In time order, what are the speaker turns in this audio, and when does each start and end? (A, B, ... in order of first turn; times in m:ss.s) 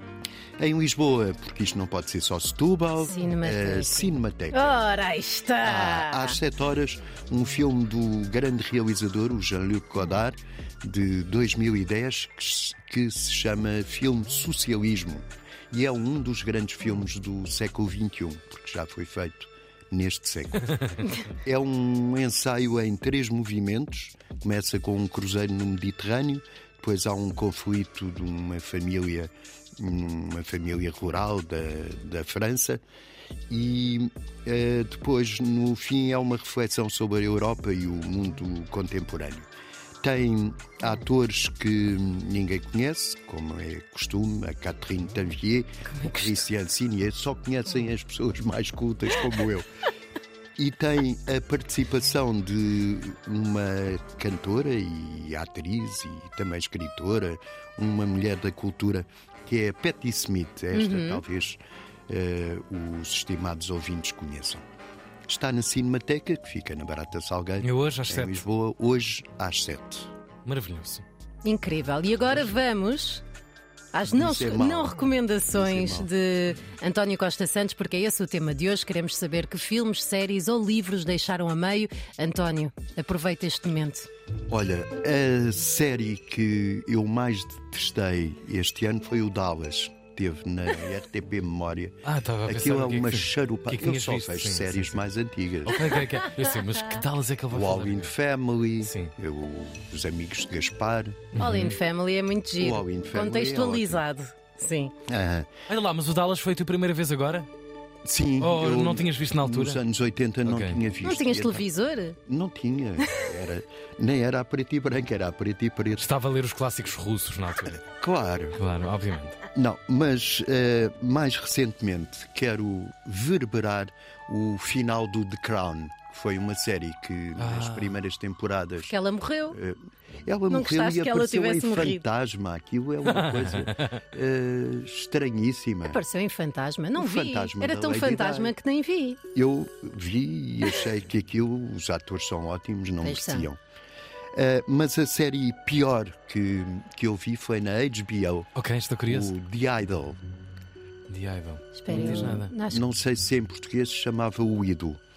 0:00.6-0:04.8 A
0:03.0-0:06.4 B
0:05.6-0:32.8 A
0:33.5-0:39.5 A
0:40.0-0:49.7 A
0:50.6-1:04.6 A
1:00.7-1:01.2 B
1:05.3-1:10.1 A
1:07.6-1:08.4 C
1:10.4-1:11.0 C
1:11.4-1:13.2 B
1:13.9-1:24.1 B
1:14.1-1:16.1 A
1:24.5-1:36.0 A
1:32.0-1:35.0 C
1:35.6-1:38.1 C
1:37.5-1:41.3 A
1:38.8-1:39.1 C
1:41.3-1:41.8 C
1:41.4-1:44.9 B
1:42.6-1:44.0 A
1:45.1-1:45.5 A
1:45.7-1:47.5 C
1:48.0-1:51.7 A
1:48.4-1:49.8 C
1:50.4-1:50.8 C
1:51.0-1:52.2 B
1:52.3-1:56.1 A
1:56.0-1:57.8 C
1:57.7-1:58.6 A
1:58.6-1:59.4 C
1:59.5-2:09.0 A
2:07.4-2:08.0 C
2:08.8-2:09.6 B
2:09.5-2:16.0 A
2:10.5-2:12.0 B
2:13.1-2:14.0 C
2:15.8-2:19.2 B
2:17.0-2:18.6 A
2:19.3-2:23.6 A
2:23.0-2:23.5 B
2:24.3-2:28.5 A
2:28.6-2:29.3 C
2:29.1-2:30.2 A
2:31.1-2:32.5 C
2:31.8-2:32.8 B
2:31.9-2:35.0 A